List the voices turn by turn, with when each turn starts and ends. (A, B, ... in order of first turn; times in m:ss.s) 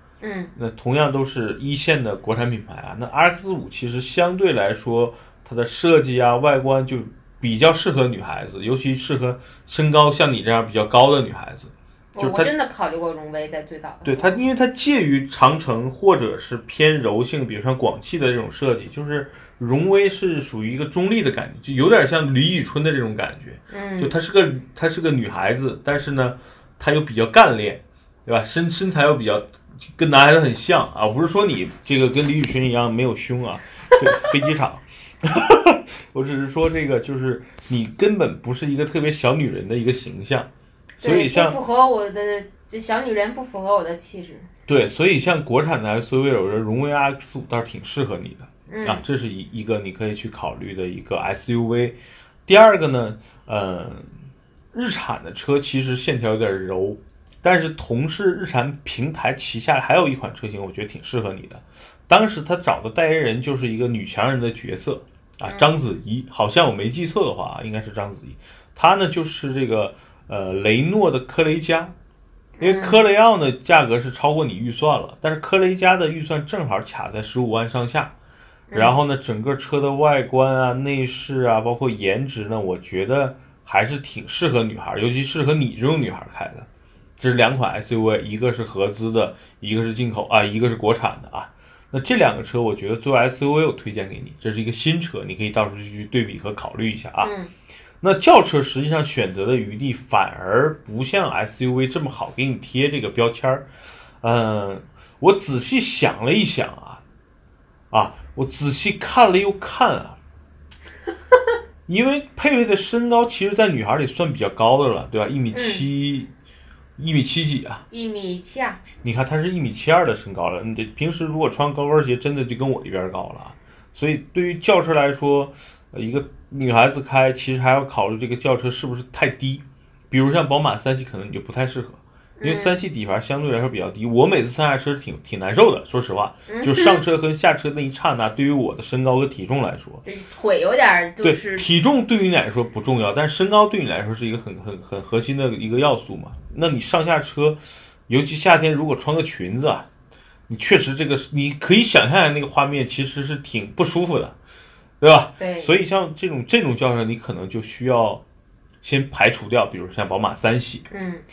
0:00.2-0:00.5 A
0:00.6-0:12.5 B
0:12.1-0:14.4 A
0:14.0-0:40.5 B
0:23.7-0:24.1 A
0:41.0-0:44.5 A
0:41.0-0:41.6 B
0:44.7-0:54.1 B
0:48.7-0:49.0 A
0:54.7-1:11.9 B
1:05.4-1:05.7 A
1:12.6-1:13.0 A
1:12.6-1:18.1 B
1:18.7-1:19.0 A
1:18.7-1:26.7 B
1:27.2-1:37.3 B
1:37.2-1:37.5 A
1:38.0-1:43.7 B
1:44.2-1:47.0 B
1:47.9-1:50.2 B
1:51.9-1:56.3 B
1:55.5-1:55.9 A
1:57.0-1:57.8 B
1:57.9-1:58.8 A
1:59.0-2:20.0 B
2:12.4-2:12.8 A
2:16.5-2:17.0 A
2:20.0-2:21.7 A
2:21.2-2:29.9 B
2:30.5-2:34.4 B
2:35.0-2:38.2 B
2:35.4-2:35.7 A
2:38.8-2:40.9 B
2:40.9-2:41.2 A